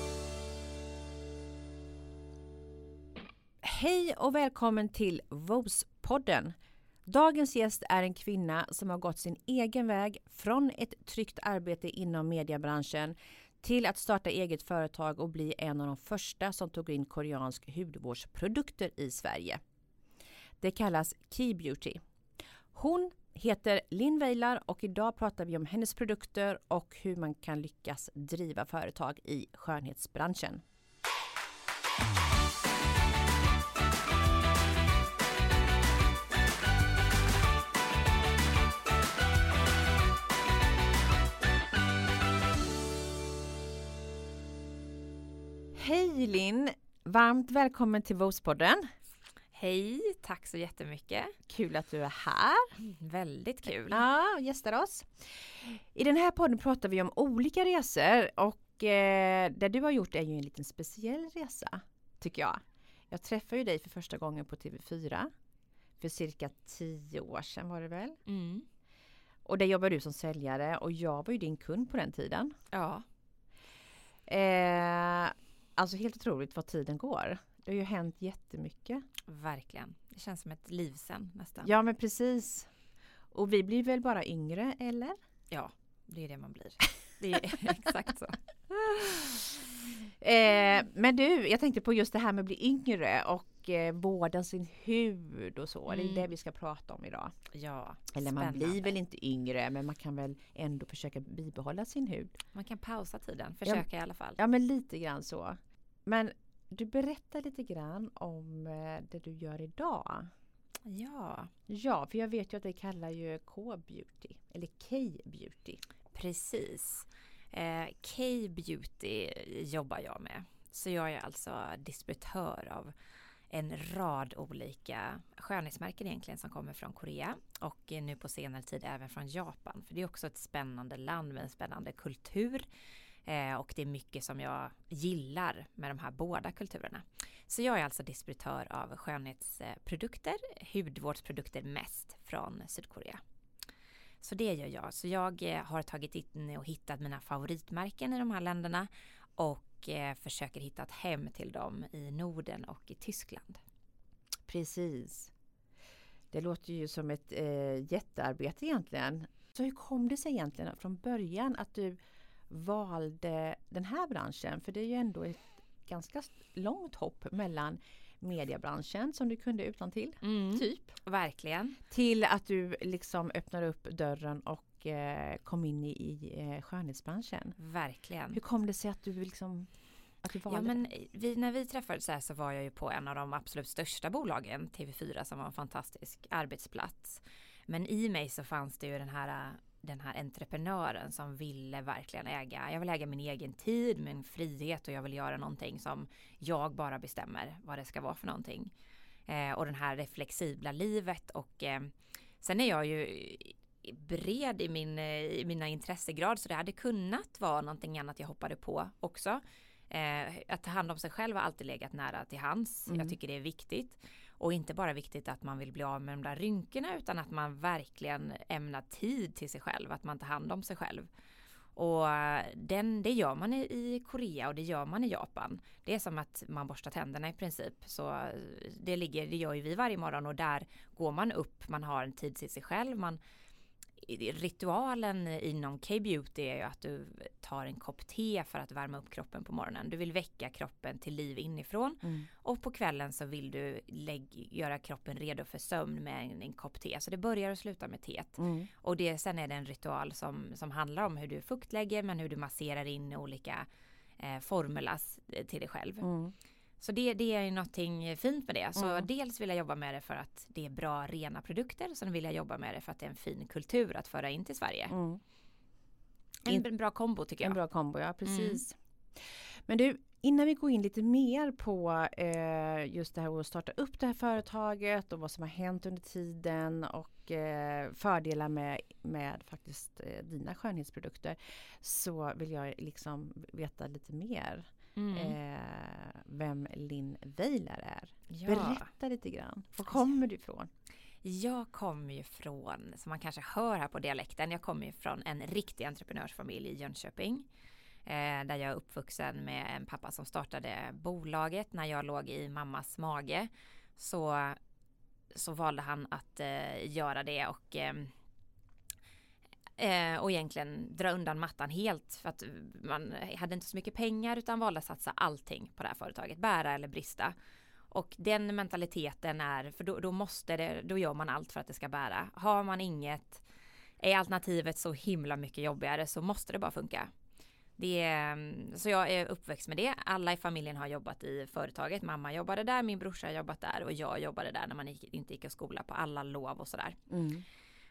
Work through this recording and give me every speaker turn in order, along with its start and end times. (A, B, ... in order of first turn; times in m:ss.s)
0:03.6-0:06.6 A
0:07.1-0:19.6 A
0:20.6-0:22.0 A
0:22.7-0:30.6 A
0:45.8-0:48.9 A
0:49.5-0:51.3 B
0:51.5-0:52.7 A
0:52.8-0:54.0 B
0:53.9-1:05.3 A
1:06.0-1:08.2 A
1:08.2-1:08.7 B
1:09.4-1:12.6 A
1:12.7-1:13.0 B
1:14.3-1:19.0 A
1:19.3-1:21.7 B
1:21.6-1:22.7 A
1:23.3-1:25.2 A
1:25.5-1:28.4 B
1:28.9-1:29.5 A
1:30.2-1:37.3 A
1:35.9-1:36.3 B
1:37.5-1:38.9 B
1:38.1-1:42.4 A
1:42.5-1:44.4 B
1:44.4-1:50.3 A
1:50.8-1:51.5 B
1:51.7-1:55.8 A
1:56.1-2:02.9 B
2:03.5-2:12.7 B
2:13.2-2:23.2 B
2:24.2-2:33.6 B
2:34.5-2:35.3 A
2:36.3-2:42.0 A
2:42.5-2:50.8 A
2:50.2-2:51.8 B
2:51.9-2:57.6 A
2:57.6-2:58.4 B
2:58.3-3:00.8 A
3:00.5-3:18.7 B
3:19.2-3:41.1 B
3:41.8-3:53.2 B
3:54.0-4:13.7 B
4:02.0-4:02.3 A
4:08.4-4:08.7 A
4:14.2-4:16.1 B
4:16.0-4:16.3 A
4:16.8-4:24.9 B
4:18.8-4:19.1 A
4:24.9-4:25.2 A
4:26.4-4:27.6 B
4:27.4-4:50.7 A
4:28.2-4:28.6 B
4:45.0-4:45.4 B
4:48.3-4:48.9 B
4:51.2-4:57.5 B
4:58.0-5:04.6 B
5:05.3-5:08.1 B
5:09.8-5:17.3 B
5:17.9-5:23.4 B
5:24.0-5:27.1 B
5:27.8-5:37.0 B
5:37.1-5:37.4 A